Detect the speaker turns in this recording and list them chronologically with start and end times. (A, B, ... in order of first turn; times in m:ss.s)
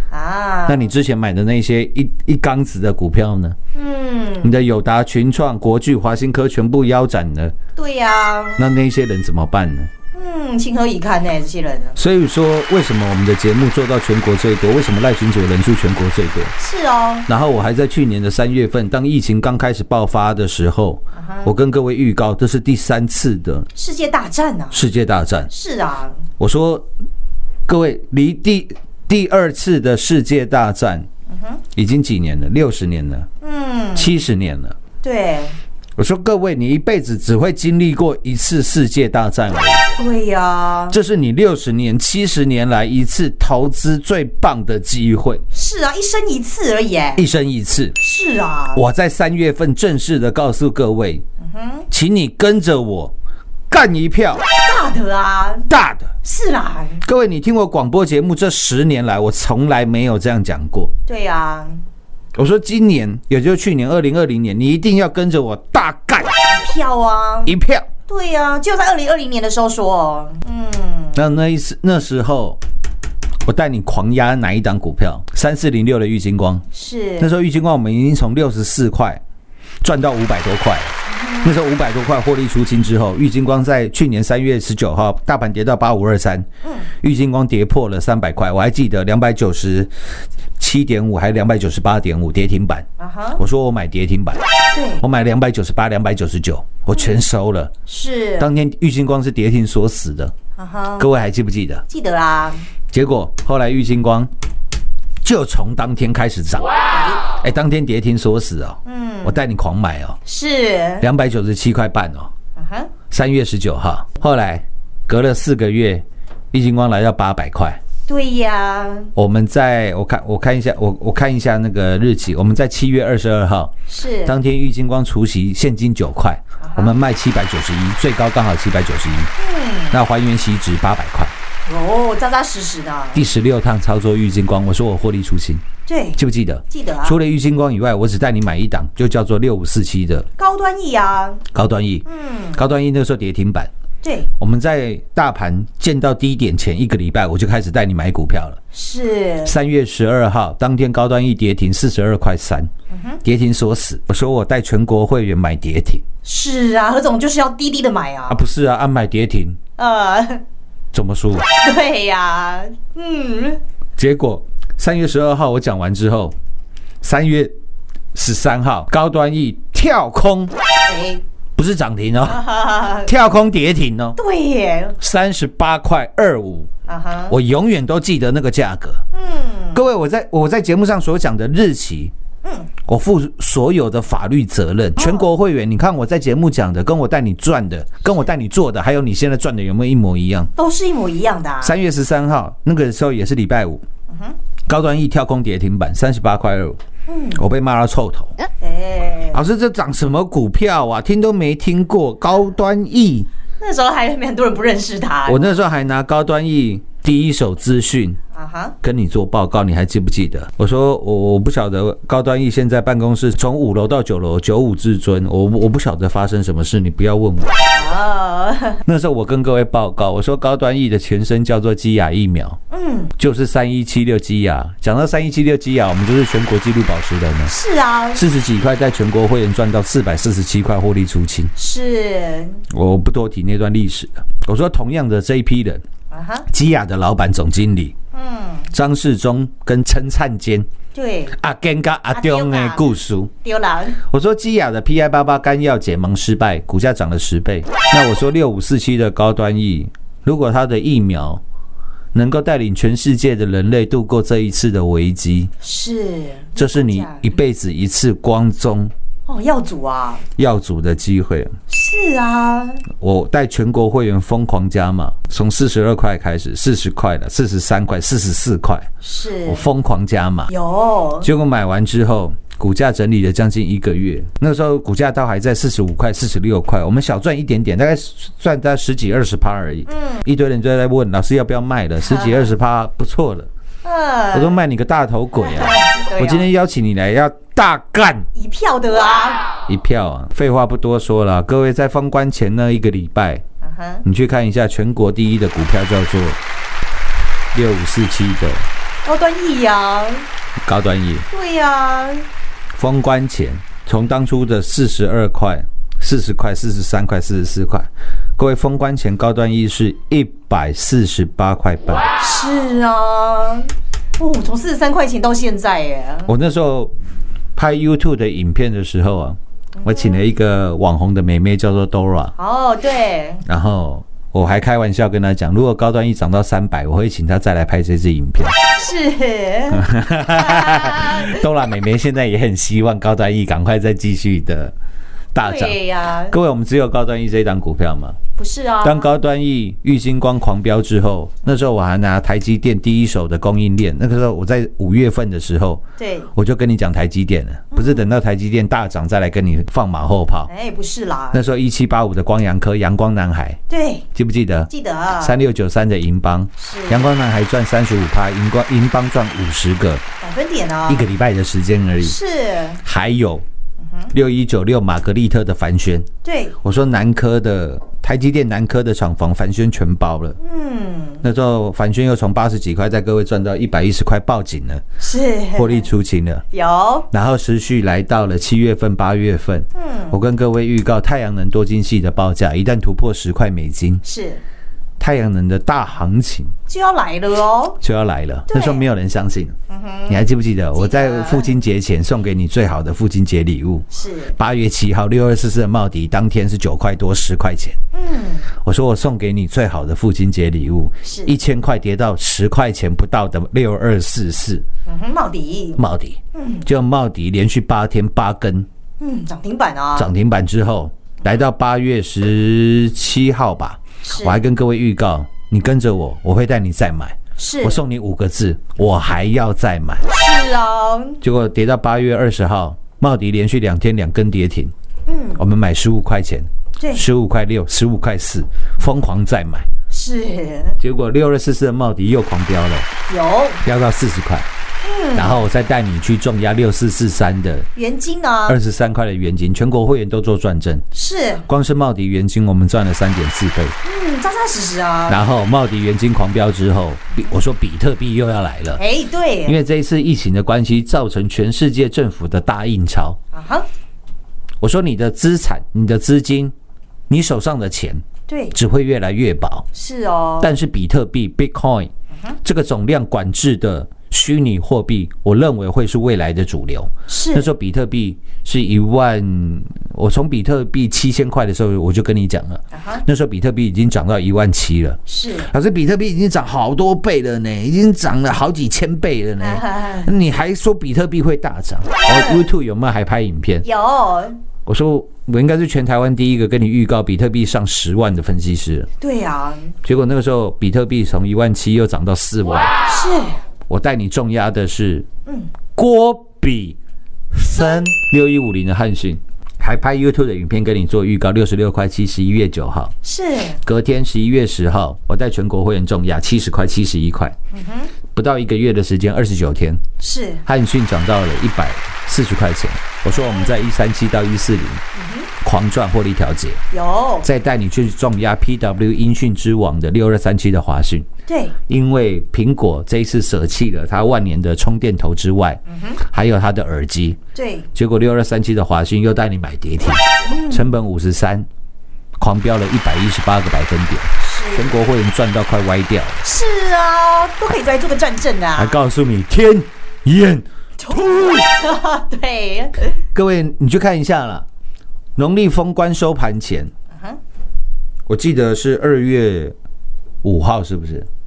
0:00.1-0:00.9 A
0:00.7-0:03.6 B
0:03.7-0:04.5 A
0:04.4-0:07.6 B
0:07.8-0:08.6 A
0:08.6-0:09.9 B
0:10.1-0:12.0 A
0:12.0-0:16.5 B
0:16.6-0:17.3 A
0:17.3-0:23.7 B
0:21.2-0:21.5 A
0:23.8-0:24.8 A
0:24.7-0:25.5 B
0:25.5-0:26.2 A
0:26.4-0:26.9 B
0:27.7-0:31.1 B
0:31.3-0:31.6 A
0:31.7-0:33.3 B
0:33.4-0:34.1 A
0:34.0-0:34.8 B
0:35.0-0:35.6 A
0:36.0-0:39.8 B
0:40.0-0:41.0 A
0:40.9-0:45.4 B
0:45.5-0:47.2 A
0:47.2-0:48.0 B
0:48.0-0:48.8 A
0:48.7-0:51.2 B
0:51.4-0:51.9 A
0:51.9-0:53.1 B
0:53.7-0:54.4 B
0:54.6-0:55.7 A
0:55.7-0:56.1 B
0:56.2-0:57.0 A
0:57.0-1:00.9 B
1:01.1-1:01.8 A
1:02.4-1:06.4 B
1:06.5-1:07.6 A
1:07.5-1:07.9 B
1:08.1-1:11.2 A
1:11.2-1:12.6 B
1:13.4-1:16.7 B
1:16.7-1:17.3 A
1:17.2-1:19.2 B
1:19.8-1:26.5 B
1:21.1-1:21.6 A
1:27.0-1:29.9 B
1:30.6-1:34.4 B
1:33.0-1:33.4 A
1:34.7-1:35.0 A
1:35.0-1:37.7 B
1:37.9-1:38.5 A
1:38.4-1:40.3 B
1:40.6-1:41.1 A
1:41.0-1:41.8 B
1:41.9-1:42.6 A
1:42.9-1:44.3 B
1:45.2-1:46.7 B
1:46.9-1:47.2 A
1:47.3-1:50.2 B
1:48.9-1:49.4 A
1:50.3-1:51.1 A
1:51.0-1:52.3 B
1:52.6-1:52.9 A
1:53.1-1:57.8 B
1:58.1-1:59.1 A
1:59.2-2:09.3 B
2:03.9-2:04.4 A
2:06.6-2:07.0 A
2:09.4-2:10.0 A
2:09.9-2:11.3 B
2:11.6-2:13.2 A
2:13.1-2:15.6 B
2:15.9-2:17.2 A
2:16.2-2:20.3 B
2:20.4-2:21.4 A
2:21.5-2:23.7 B
2:22.1-2:22.6 A
2:24.0-2:24.3 A
2:24.4-2:28.6 B
2:28.7-2:29.5 A
2:29.4-2:32.7 B
2:32.9-2:33.2 A
2:33.2-2:36.0 B
2:36.2-2:38.4 A
2:38.3-2:39.6 B
2:39.8-2:40.4 A
2:40.9-2:41.5 B
2:41.6-2:43.6 A
2:44.0-2:46.4 B
2:47.0-2:47.5 B
2:48.1-2:50.5 B
2:50.9-2:51.2 A
2:51.6-2:54.2 B
2:52.3-2:53.1 A
2:54.2-2:55.0 A
2:55.0-2:56.7 B
2:56.9-2:57.4 A
2:57.3-2:59.0 B
2:59.1-2:59.8 A
2:59.7-3:02.1 B
3:02.4-3:02.7 A
3:02.8-3:10.5 B
3:05.0-3:05.3 A
3:10.6-3:11.8 A
3:11.6-3:13.8 B
3:14.1-3:14.4 A
3:14.7-3:16.8 B
3:17.1-3:17.4 A
3:17.4-3:18.3 B
3:18.6-3:19.4 A
3:19.3-3:23.3 B
3:23.6-3:25.6 A
3:25.3-3:28.2 B
3:28.3-3:28.7 A
3:28.8-3:37.7 B
3:37.7-3:38.8 A
3:38.8-3:42.6 B
3:42.7-3:43.1 A
3:43.2-3:47.5 B
3:47.5-3:48.2 A
3:48.1-3:51.5 B
3:51.6-3:52.6 A
3:52.7-3:55.8 B
3:56.1-3:56.5 A
3:56.5-3:58.0 B
3:58.1-3:58.7 A
3:58.7-4:00.7 B
4:01.0-4:01.4 A
4:01.3-4:03.3 B
4:02.1-4:02.9 A
4:03.4-4:04.0 A
4:04.0-4:11.4 B
4:12.1-4:15.5 B
4:15.6-4:17.3 A
4:16.6-4:18.9 B
4:19.3-4:20.2 A
4:20.4-4:21.5 B
4:21.7-4:22.8 A
4:23.0-4:28.9 B
4:29.0-4:29.6 A
4:29.4-4:30.5 B
4:30.5-4:31.3 A
4:31.2-4:43.5 B
4:39.9-4:40.2 A
4:42.0-4:42.5 A
4:43.8-4:44.6 A
4:44.3-4:48.3 B
4:45.4-4:46.5 A
4:48.4-4:49.4 A
4:49.7-4:53.4 B
4:53.6-4:54.0 A
4:54.0-4:56.4 B
4:57.5-4:58.7 B
4:59.0-5:00.2 A
5:00.6-5:01.3 B
5:01.3-5:02.3 A
5:02.8-5:12.1 B
5:12.2-5:16.3 A
5:16.3-5:16.9 B
5:17.6-5:22.4 B
5:19.8-5:20.2 A
5:22.4-5:23.4 A
5:23.5-5:28.6 B
5:28.8-5:31.4 A
5:29.7-5:34.7 B
5:35.3-5:38.2 B
5:35.4-5:36.4 A
5:38.4-5:39.1 A
5:38.8-5:45.8 B
5:46.0-5:46.3 A
5:46.4-5:50.5 B
5:47.7-5:48.1 A
5:50.5-5:51.4 A
5:51.3-5:53.6 B
5:53.7-5:54.0 A
5:54.2-6:00.0 B
5:54.7-5:55.4 A
5:56.6-5:57.1 A
6:00.2-6:01.1 A
6:00.9-6:02.2 B
6:02.0-6:02.8 A
6:02.8-6:03.4 B
6:03.8-6:04.1 A
6:04.1-6:06.1 B
6:06.2-6:06.6 A
6:06.6-6:10.4 B
6:10.4-6:11.2 A
6:11.2-6:14.8 B
6:15.0-6:15.9 A
6:15.6-6:16.4 B
6:16.5-6:17.1 A
6:17.1-6:24.0 B
6:19.8-6:20.2 A
6:24.0-6:24.4 A
6:25.0-6:26.5 B
6:26.7-6:27.8 A
6:27.8-6:29.6 B
6:28.5-6:28.8 A
6:29.7-6:31.5 A
6:30.1-6:37.8 B
6:33.9-6:34.4 A
6:37.9-6:38.5 A
6:38.6-6:44.6 B
6:41.0-6:41.3 A
6:44.9-6:45.8 A
6:45.8-6:48.7 B
6:46.4-6:46.7 A
6:49.0-6:50.1 A
6:50.0-7:00.1 B
6:54.0-6:54.4 A
6:57.4-6:57.8 A
7:00.1-7:01.2 A
7:01.2-7:04.7 B
7:05.1-7:05.4 A
7:05.4-7:09.7 B
7:06.8-7:07.0 A
7:09.9-7:10.8 A
7:10.8-7:12.9 B
7:13.1-7:13.6 A
7:13.6-7:14.5 B
7:14.8-7:15.4 A
7:15.2-7:17.7 B
7:17.8-7:18.6 A
7:18.5-7:20.8 B
7:20.9-7:21.5 A
7:21.5-7:23.8 B
7:23.8-7:25.2 A
7:25.1-7:28.8 B
7:28.8-7:29.6 A
7:29.5-7:33.2 B
7:33.3-7:33.7 A
7:34.6-7:36.5 B
7:37.1-7:39.7 B
7:38.3-7:38.6 A
7:39.7-7:40.5 A
7:40.4-7:41.9 B
7:42.4-8:03.7 B
7:47.1-7:47.5 A
7:52.7-7:53.0 A
7:55.1-7:55.5 A
7:59.4-8:00.1 A
8:02.0-8:02.4 A
8:03.6-8:04.4 A
8:04.7-8:08.9 B
8:09.0-8:09.7 A
8:09.8-8:12.7 B
8:12.9-8:13.4 A
8:13.7-8:15.1 B
8:15.3-8:15.5 A
8:15.8-8:16.8 B
8:17.3-8:23.0 B
8:23.0-8:23.6 A
8:23.6-8:27.4 B
8:27.5-8:27.9 A
8:28.1-8:29.8 B
8:30.0-8:30.4 A
8:30.4-8:34.8 B
8:33.1-8:33.5 A
8:35.0-8:35.3 A
8:35.4-8:36.6 B
8:36.7-8:37.3 A
8:37.2-8:41.1 B
8:41.3-8:41.6 A
8:41.7-8:47.2 B
8:45.7-8:46.0 A
8:47.4-8:47.7 A
8:47.8-8:51.5 B
8:50.3-8:50.7 A
8:52.2-8:56.2 B
8:54.2-8:54.7 A
8:56.2-8:58.8 A
8:58.6-9:01.4 B
9:00.8-9:02.9 A
9:03.1-9:04.5 B
9:05.2-9:06.7 B
9:08.1-9:09.6 B
9:10.2-9:11.1 B